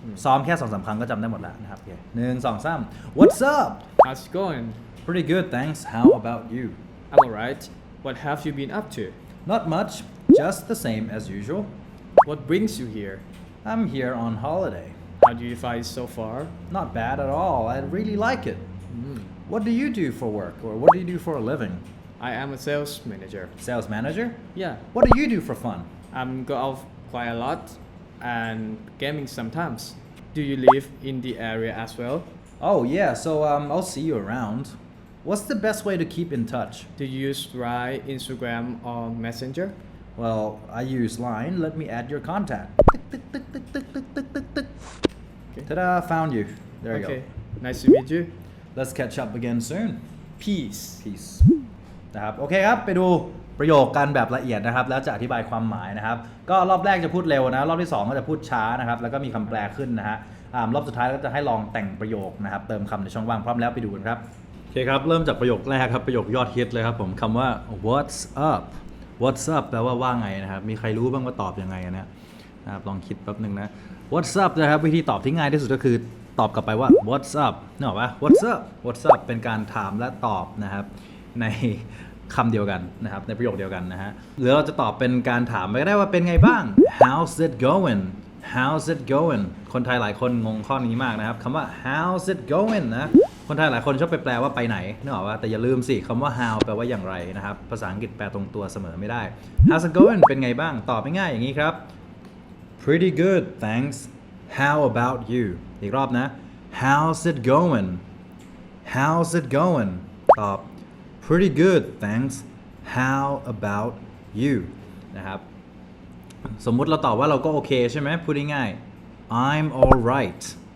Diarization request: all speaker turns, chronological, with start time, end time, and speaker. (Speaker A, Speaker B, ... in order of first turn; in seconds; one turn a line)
Speaker A: 0.2-3.9
Speaker B: 4.0-4.8
Speaker A: 5.0-6.8
Speaker B: 7.1-9.1
Speaker A: 9.5-11.7
Speaker B: 12.2-13.2
Speaker A: 13.7-15.0
Speaker B: 15.2-16.6
Speaker A: 16.7-18.7
Speaker B: 18.9-19.3
Speaker A: 19.4-21.9
Speaker B: 22.2-23.5
Speaker A: 23.6-25.9
Speaker B: 24.6-24.8
Speaker B: 26.1-32.3
Speaker A: 32.6-36.9
Speaker B: 37.0-39.8
Speaker A: 40.2-44.7
Speaker A: 45.7-47.2
Speaker B: 46.9-48.3
Speaker A: 48.8-50.0
Speaker B: 50.4-51.0
Speaker A: 51.0-51.5
Speaker A: 52.1-72.1
Speaker A: 72.7-101.8
Speaker A: 102.8-108.0
Speaker A: 108.8-110.7
Speaker A: 111.2-115.5
Speaker A: 116.6-118.8
Speaker A: 119.3-120.6